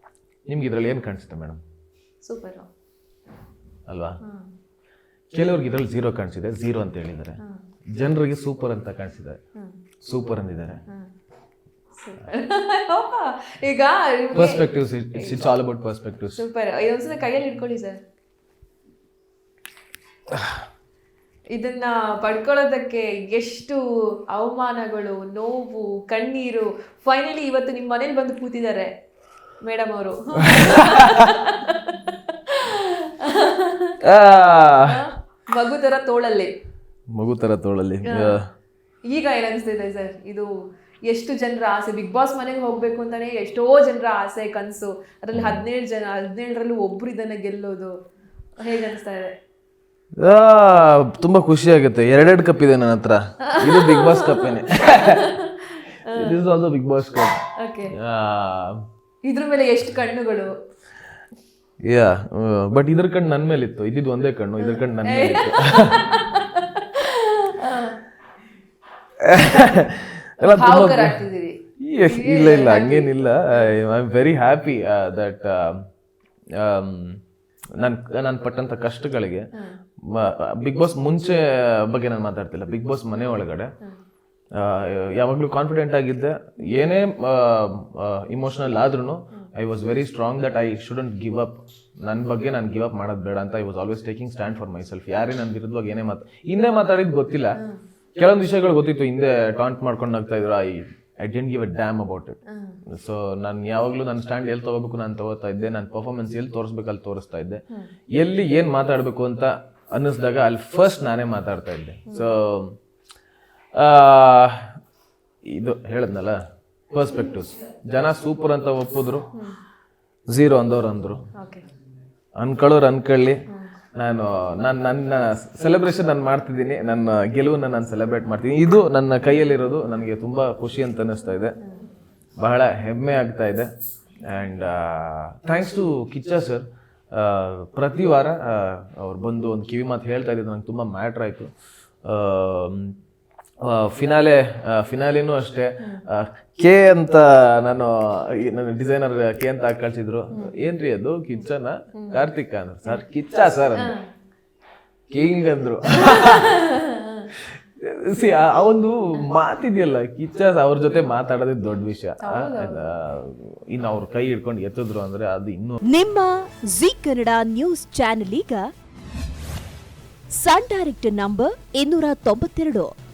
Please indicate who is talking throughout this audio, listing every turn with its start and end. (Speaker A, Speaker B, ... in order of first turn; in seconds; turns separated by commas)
Speaker A: 0.5-1.6, Speaker B: 2.2-2.7, Speaker A: 3.9-4.2, Speaker B: 4.2-4.5, Speaker A: 5.3-7.4, Speaker A: 7.9-9.4, Speaker A: 10.0-10.8, Speaker B: 11.9-15.4, Speaker A: 14.3-16.4, Speaker B: 16.3-18.0, Speaker B: 21.5-28.9, Speaker B: 29.6-34.0, Speaker A: 30.5-31.3, Speaker A: 34.0-35.0, Speaker B: 34.9-36.5, Speaker A: 37.1-38.5, Speaker B: 38.1-38.4, Speaker B: 39.1-40.5, Speaker B: 41.1-47.9, Speaker A: 45.3-45.7, Speaker B: 48.6-49.3, Speaker A: 50.2-55.4, Speaker B: 53.4-56.4, Speaker A: 56.1-57.4, Speaker B: 57.6-57.9, Speaker A: 57.9-58.8, Speaker B: 59.2-60.5, Speaker A: 61.8-66.2, Speaker B: 64.6-68.0, Speaker A: 69.2-71.2, Speaker B: 70.4-73.8, Speaker A: 71.8-75.8, Speaker A: 76.6-77.2, Speaker A: 77.8-79.5, Speaker A: 80.1-83.7, Speaker A: 84.5-97.6, Speaker A: 98.2-107.6, Speaker B: 102.5-102.8, Speaker A: 108.1-112.8, Speaker A: 113.8-114.7, Speaker A: 115.5-116.4, Speaker A: 116.9-119.3, Speaker A: 120.3-121.2, Speaker B: 121.4-121.7, Speaker A: 122.4-123.4, Speaker A: 124.0-131.6, Speaker B: 131.6-131.9, Speaker A: 132.4-133.7, Speaker A: 134.3-141.5, Speaker A: 142.0-142.9, Speaker A: 143.6-153.9, Speaker B: 151.9-152.3, Speaker B: 153.8-154.1, Speaker A: 155.1-156.6, Speaker B: 155.9-157.3, Speaker A: 157.4-165.8, Speaker B: 162.2-162.8, Speaker C: 165.9-168.7, Speaker C: 170.3-172.9